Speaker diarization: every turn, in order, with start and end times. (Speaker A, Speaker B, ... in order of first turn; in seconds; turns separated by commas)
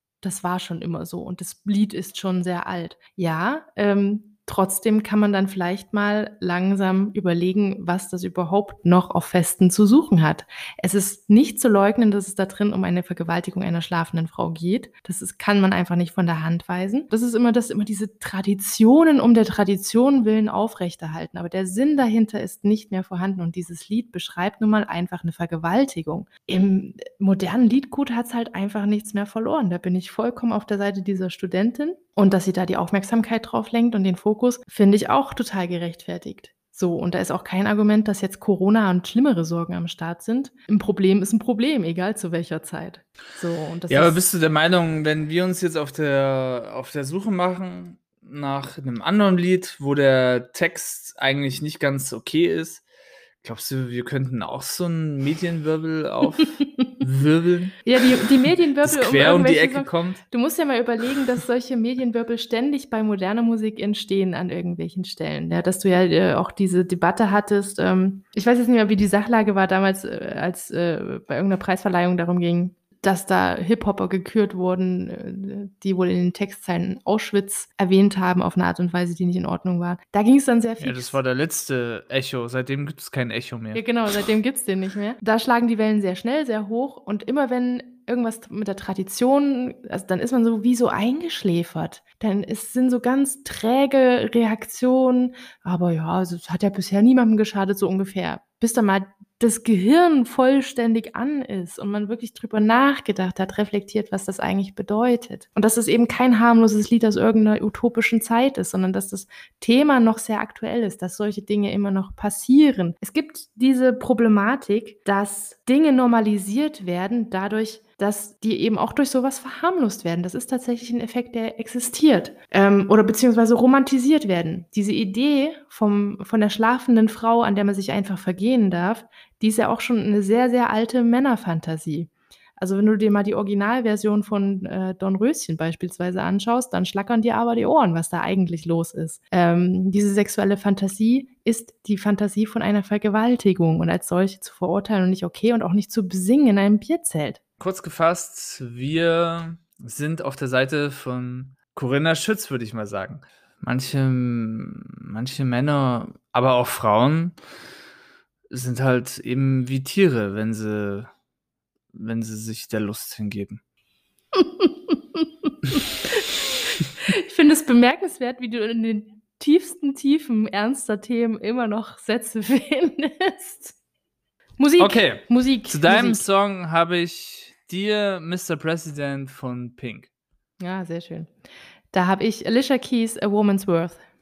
Speaker A: 0.2-44.2, Speaker B: 43.9-52.8, Speaker B: 53.4-60.2, Speaker A: 57.8-81.2, Speaker B: 80.8-83.8, Speaker A: 83.7-147.4, Speaker B: 147.6-157.4, Speaker B: 158.5-161.1, Speaker B: 161.9-163.6, Speaker A: 164.3-173.8, Speaker A: 174.6-176.2, Speaker B: 174.8-180.1, Speaker A: 180.6-181.3, Speaker A: 181.9-184.0